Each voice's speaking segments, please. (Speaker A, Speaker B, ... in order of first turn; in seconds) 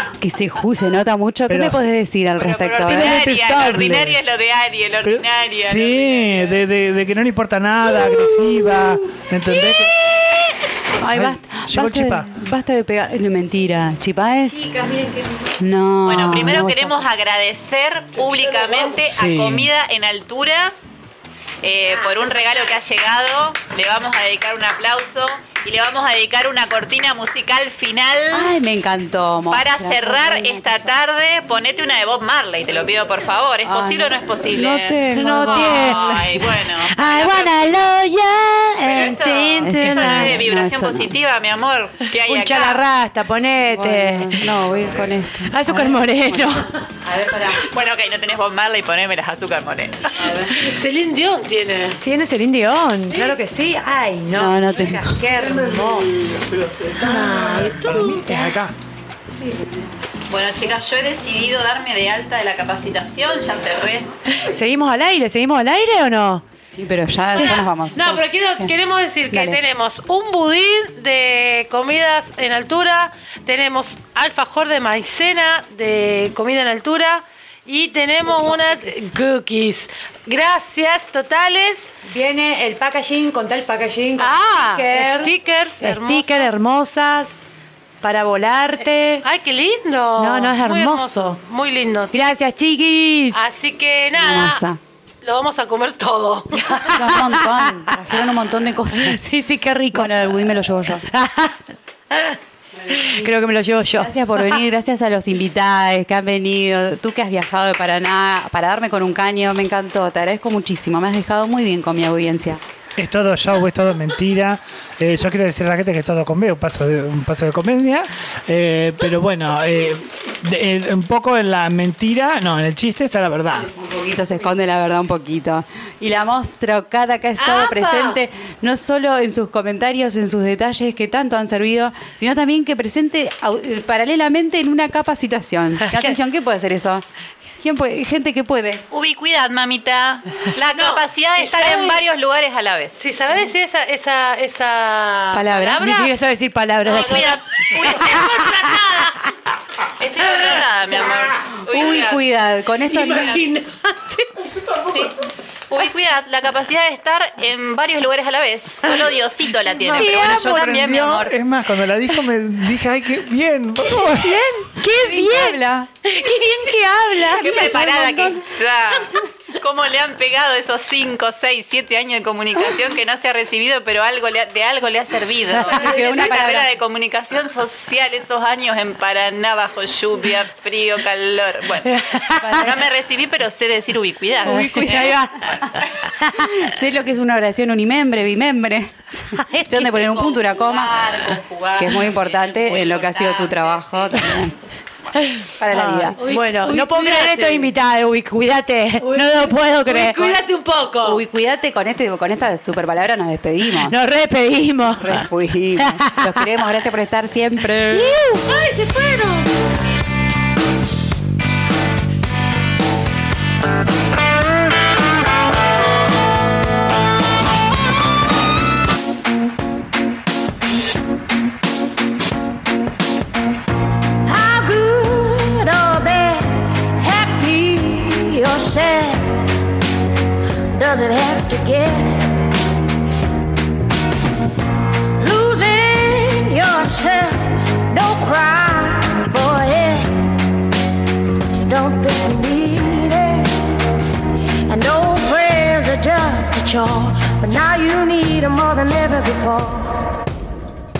Speaker A: 0.2-3.2, 11.0-14.6, 15.6-17.0, 28.3-30.9, 33.6-36.4, 39.6-41.1, 43.6-47.6, 50.1-50.5, 54.3-55.2, 59.3-59.8, 66.7-68.7, 69.3-69.6, 94.1-94.8, 96.8-99.2, 99.9-101.0, 102.8-103.3, 104.0-112.6, 123.5-137.0, 137.6-138.8, 145.3-145.9, 151.7-153.4, 164.8-165.9, 167.2-168.4, 175.7-176.7, 182.4-182.9, 184.4-185.6, 186.4-191.1, 191.8-194.5, 195.6-196.2, 201.0-204.0, 204.9-208.1
Speaker B: 1.5-1.9, 2.9-4.2, 5.0-9.9, 11.1-12.3, 19.0-19.7, 55.4-58.7, 113.0-123.7, 159.9-164.4
Speaker C: 2.4-6.5, 16.0-20.7, 21.6-28.6, 29.5-37.6, 38.8-42.8, 47.6-50.3, 60.3-64.1, 67.3-67.6, 138.9-143.0, 146.8-148.5, 150.0-152.2, 154.8-155.2, 155.7-161.3, 167.3-185.2, 189.8-194.5
Speaker D: 14.5-15.6, 35.1-40.4, 42.2-44.6, 45.5-46.7, 52.0-56.1, 57.0-57.6, 64.4-66.4, 82.0-87.4, 88.0-89.2, 90.2-91.4, 92.1-93.4, 97.1-97.8, 98.9-100.2, 101.0-101.6, 103.0-104.5, 145.8-147.4, 159.9-160.7, 164.0-167.7, 181.8-182.5, 184.5-186.4, 189.5-189.9, 195.2-200.4, 203.7-206.5, 208.1-208.4
Speaker E: 50.5-52.0, 53.0-53.4, 57.0-58.2, 67.3-81.9, 84.2-86.5, 89.2-92.3, 93.3-94.7, 95.2-97.1, 127.4-128.2, 140.7-142.0, 143.0-146.1, 147.0-149.2, 152.8-154.6, 196.2-197.7, 199.0-201.2, 207.9-209.5
Speaker F: 224.2-229.5, 230.7-232.5, 235.2-240.4, 241.5-243.7, 244.7-250.2